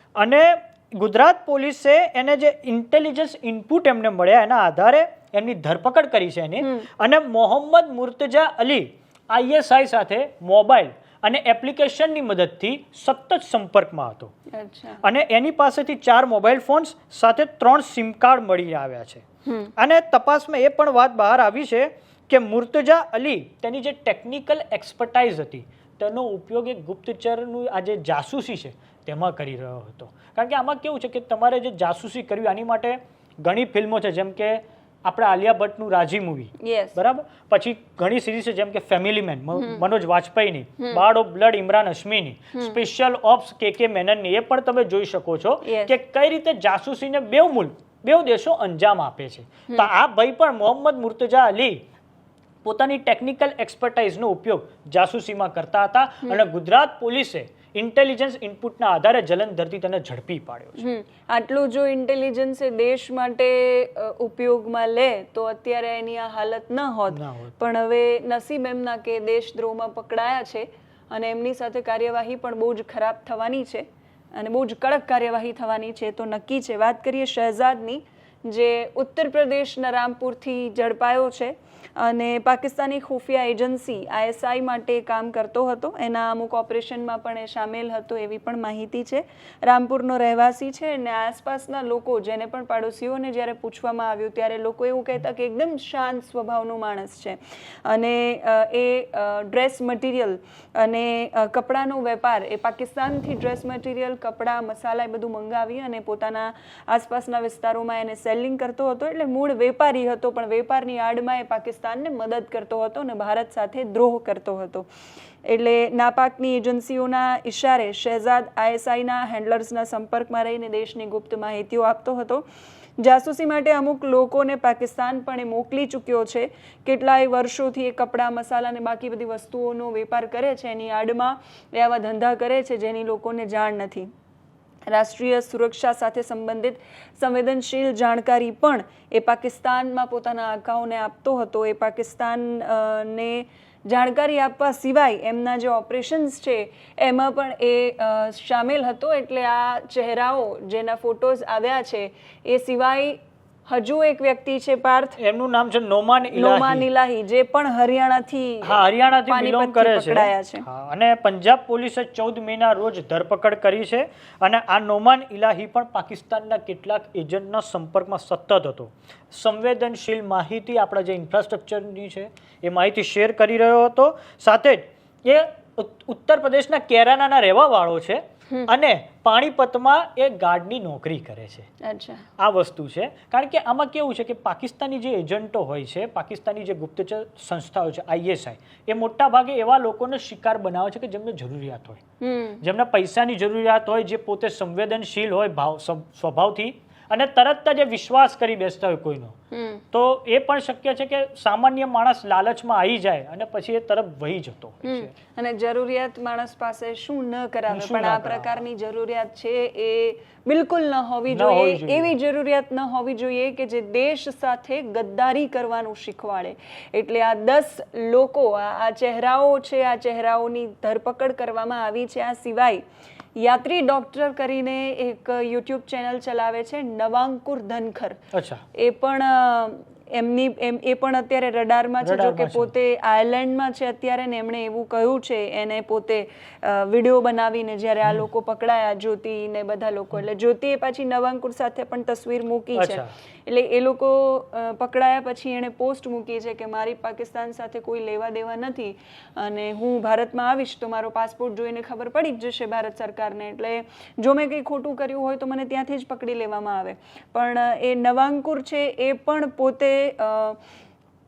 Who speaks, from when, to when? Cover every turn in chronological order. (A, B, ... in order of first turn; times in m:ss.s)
0:00.2-0:14.3 A
0:06.6-0:06.9 B
0:14.5-0:15.0 B
0:15.0-0:19.2 A
0:19.4-0:19.7 B
0:19.8-0:51.8 A
0:36.6-0:37.0 B
0:45.6-0:45.9 B
0:52.6-1:00.8 A
1:00.8-1:54.9 B
1:07.1-1:07.6 A
1:55.4-2:02.4 B
2:03.0-2:14.1 B
2:14.9-2:35.2 B
2:35.2-2:36.8 A
2:36.3-2:40.6 B
2:38.6-3:01.7 A
3:01.8-3:02.2 B
3:02.4-3:12.0 A
3:12.2-3:12.6 B
3:12.6-3:19.3 A
3:19.5-3:19.8 B
3:19.9-3:25.1 A
3:24.8-3:42.8 B
3:27.7-3:28.5 A
3:31.3-3:32.1 A
3:43.4-3:48.2 B
3:48.3-3:48.6 A
3:48.7-4:20.6 B
3:52.0-3:52.7 A
4:02.8-4:03.1 A